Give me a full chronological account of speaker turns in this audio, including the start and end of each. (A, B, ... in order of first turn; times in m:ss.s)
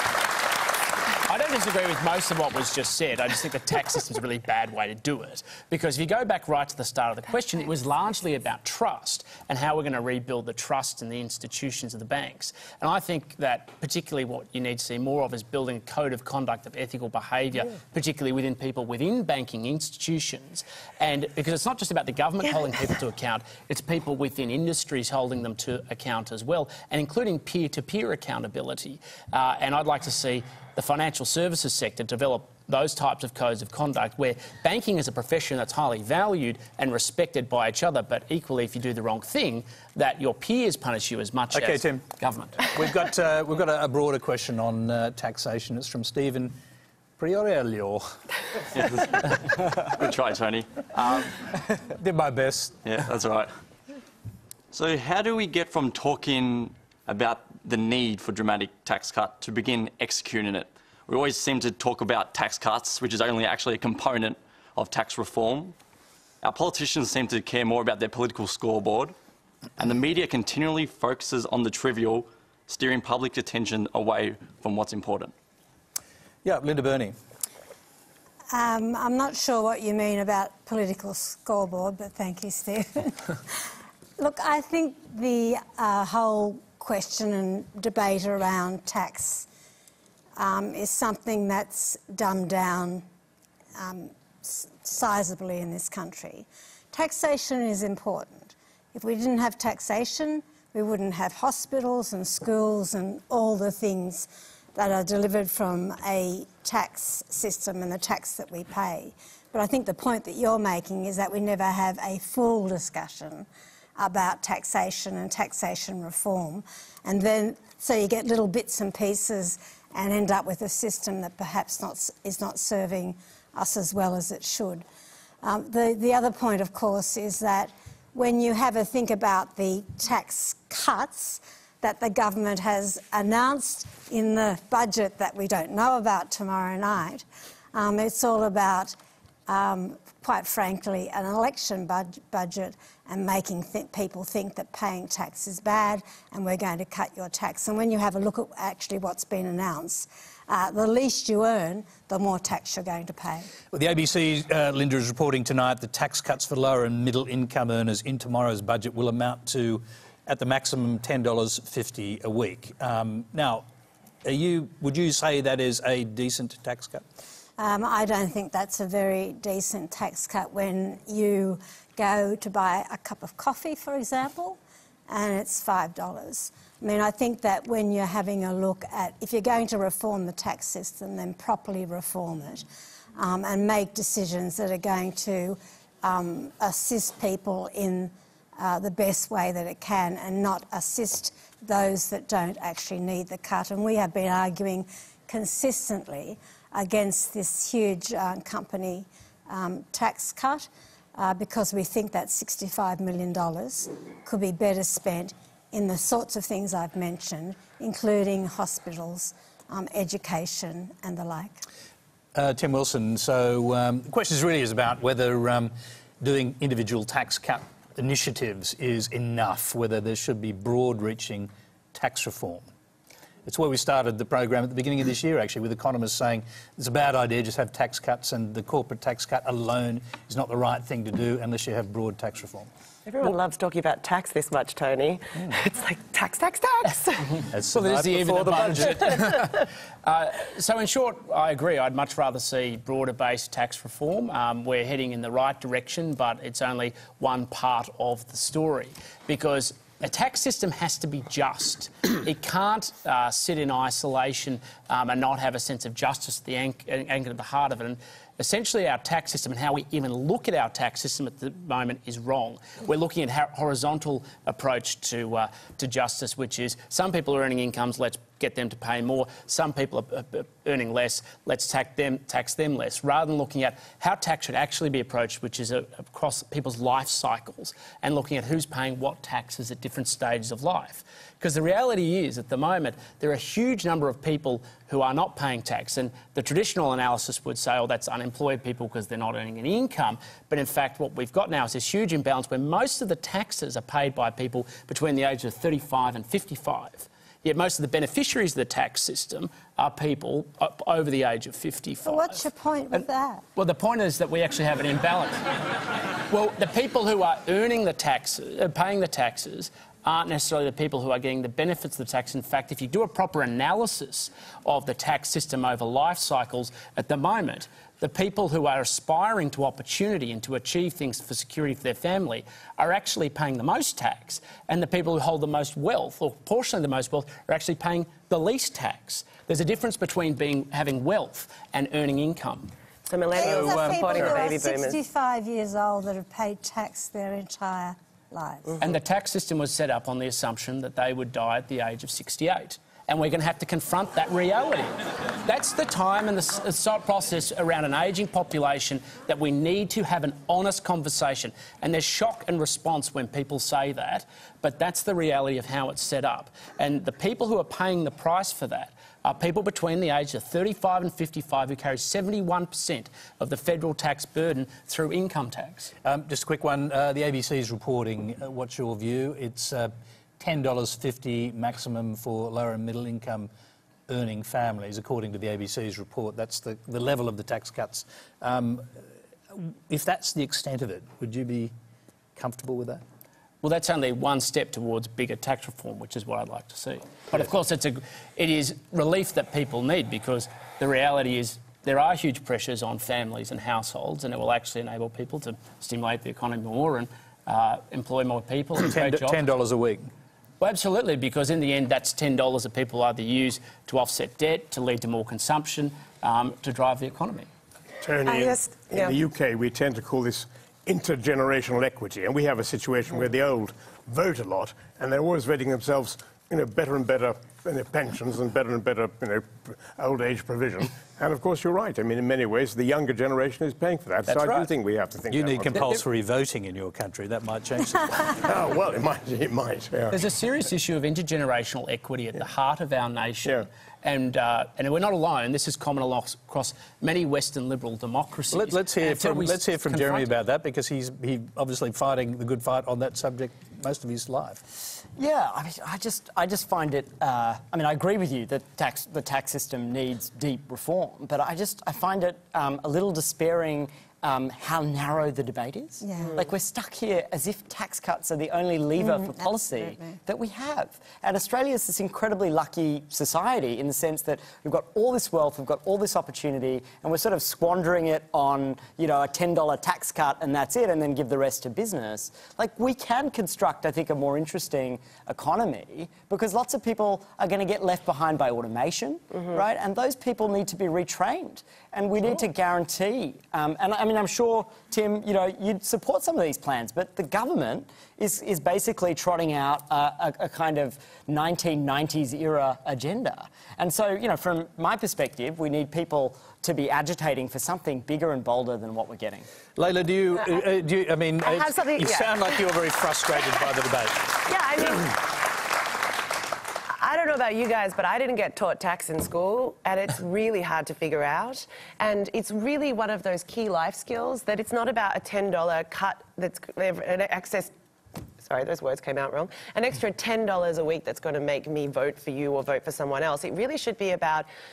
0:01.3-0:42.7 A
0:41.5-0:42.0 B
0:42.7-0:46.5 B
0:47.2-0:48.1 B
0:48.8-0:49.2 C
0:49.9-0:51.2 C
0:51.9-0:52.8 B
0:52.8-0:53.5 C
0:54.7-1:05.7 C
1:06.4-1:09.1 C
1:09.8-1:15.3 C
1:16.4-1:17.1 B
1:18.5-1:23.6 D
1:24.2-1:29.5 D
1:30.4-1:33.0 D
1:33.8-2:04.8 D
2:05.4-2:19.0 D
2:19.5-2:33.5 D
2:33.7-2:43.6 B
2:44.2-2:47.0 B
2:47.6-2:54.6 D
2:55.1-3:02.6 D
3:03.2-3:31.6 D
3:32.3-3:42.7 B
3:43.4-3:52.7 B
3:53.0-3:57.4 E
3:57.5-3:59.5 B
3:57.7-5:02.4 A
5:02.0-5:03.4 D
5:03.6-5:05.4 A
5:06.3-5:32.7 A
5:33.1-5:35.0 E
5:33.3-5:38.7 D
5:33.4-5:34.5 B
5:38.8-5:44.9 A
5:45.4-6:05.9 A
6:06.0-6:13.5 B
6:14.1-6:21.7 B
6:22.4-6:23.0 B
6:23.6-6:39.4 A
6:38.8-6:40.1 B
6:40.6-6:47.5 A
6:48.0-7:06.0 F
6:48.2-6:49.2 E
7:04.3-7:04.6 B
7:05.3-7:08.2 B
7:08.4-7:10.2 F
7:10.1-7:20.3 A
7:18.5-7:24.6 B
7:25.2-8:19.4 G
7:36.0-7:36.4 D
7:39.0-7:40.2 D
8:19.8-8:24.3 B
8:20.3-8:20.7 E
8:21.4-8:22.6 E
8:24.4-8:25.2 E
8:27.0-8:37.7 E
8:38.4-8:44.5 E